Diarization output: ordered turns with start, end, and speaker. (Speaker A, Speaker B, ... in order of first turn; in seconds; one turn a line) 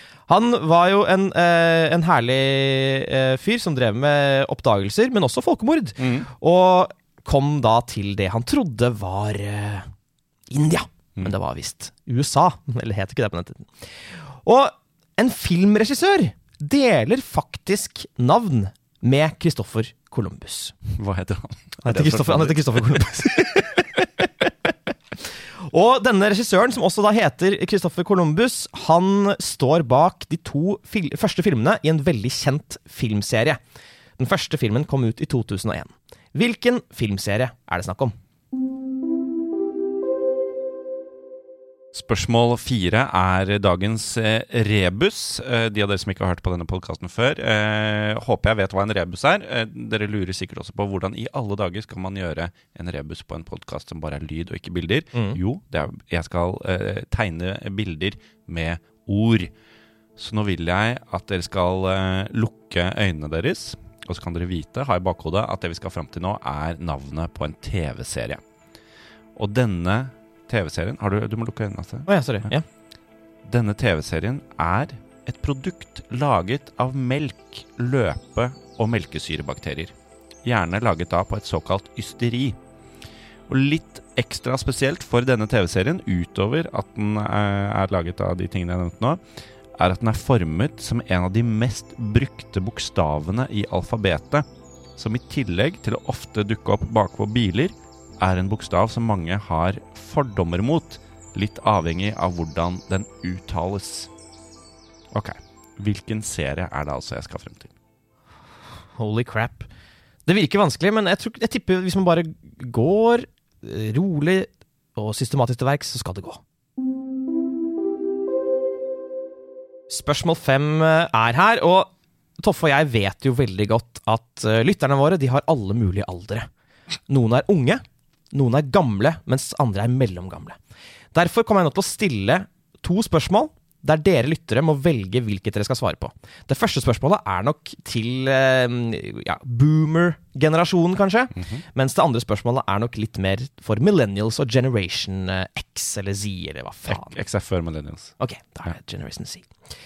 Speaker A: 0.3-9.9
Speaker B: 6.0-6.3
Speaker A: 10.5-20.7
Speaker B: 20.9-23.0
Speaker A: 21.8-24.3
Speaker A: 25.6-33.6
Speaker A: 34.2-38.1
Speaker B: 41.9-59.5
Speaker B: 60.2-68.4
Speaker B: 69.4-72.5
Speaker A: 72.1-72.7
Speaker B: 73.4-82.6
Speaker B: 83.5-89.2
Speaker B: 89.8-104.1
Speaker B: 105.1-107.7
Speaker A: 109.0-109.7
Speaker A: 110.3-116.4
Speaker A: 119.9-126.5
Speaker A: 127.1-130.6
Speaker A: 131.1-147.2
Speaker B: 141.4-141.6
Speaker B: 146.9-148.1
Speaker A: 148.2-149.5